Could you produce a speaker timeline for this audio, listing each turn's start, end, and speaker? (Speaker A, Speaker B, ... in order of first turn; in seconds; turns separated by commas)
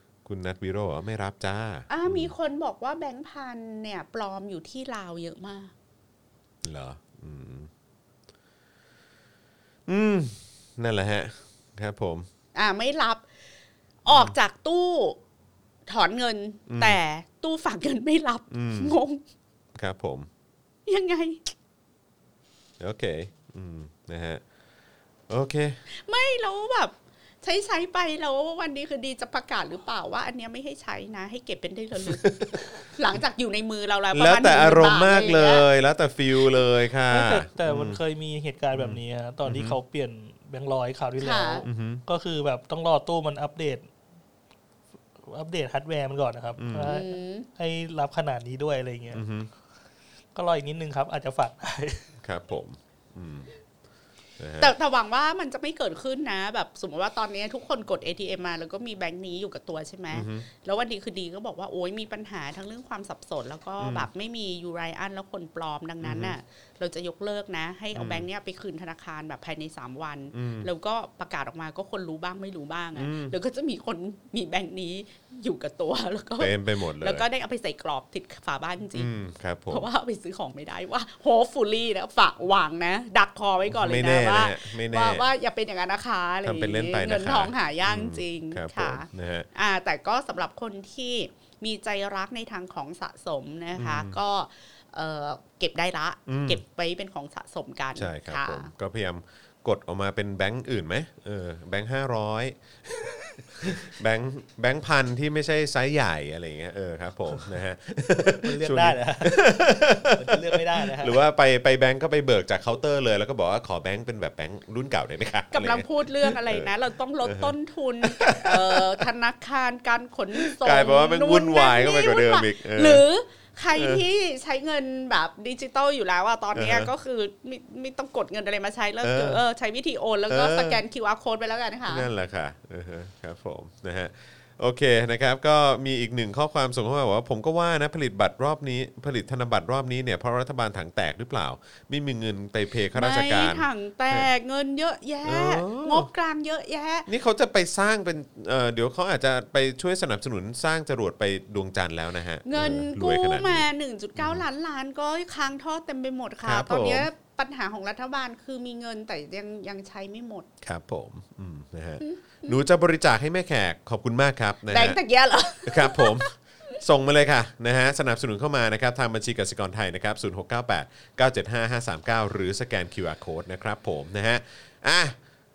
Speaker A: 0.2-2.3, Speaker B: 1.9-5.7, Speaker A: 6.6-7.7, Speaker A: 9.9-12.3, Speaker B: 12.6-13.2, Speaker B: 14.1-15.2, Speaker A: 14.1-14.3, Speaker B: 15.9-19.2, Speaker A: 16.7-17.0, Speaker A: 18.5-19.0, Speaker A: 19.8-20.3, Speaker B: 20.9-21.4, Speaker A: 22.8-24.4, Speaker A: 25.3-25.8, Speaker B: 25.9-32.3, Speaker A: 32.0-32.6, Speaker B: 32.9-35.7, Speaker A: 34.1-38.0, Speaker C: 37.1-43.9, Speaker A: 38.7-39.8, Speaker B: 41.2-41.6, Speaker A: 41.6-42.0, Speaker C: 45.3-49.3, Speaker A: 46.6-47.0, Speaker B: 46.9-47.5, Speaker A: 49.1-49.5, Speaker C: 50.4-52.1, Speaker A: 52.2-53.5, Speaker A: 54.4-54.7, Speaker B: 54.6-79.1, Speaker A: 60.1-60.5, Speaker A: 63.8-64.1, Speaker A: 66.0-66.4, Speaker A: 67.9-68.3, Speaker A: 70.3-70.7, Speaker A: 73.0-73.4, Speaker A: 76.4-77.3, Speaker A: 79.0-79.9, Speaker B: 79.7-98.7, Speaker A: 83.7-85.3, Speaker A: 86.4-89.5, Speaker A: 93.8-94.1, Speaker A: 96.3-96.6, Speaker A: 98.0-102.6, Speaker A: 103.6-116.7, Speaker C: 108.2-111.2, Speaker B: 115.5-132.1, Speaker A: 117.2-119.1, Speaker A: 120.4-123.0, Speaker A: 123.7-124.0, Speaker A: 126.5-126.9, Speaker A: 129.0-129.4, Speaker A: 130.3-130.8, Speaker A: 131.9-144.3, Speaker B: 142.9-147.1, Speaker A: 145.2-146.1, Speaker A: 147.1-154.4, Speaker B: 152.4-160.5, Speaker A: 156.4-157.1, Speaker A: 160.6-165.0, Speaker B: 162.0-162.5, Speaker B: 164.7-166.3, Speaker A: 165.7-175.2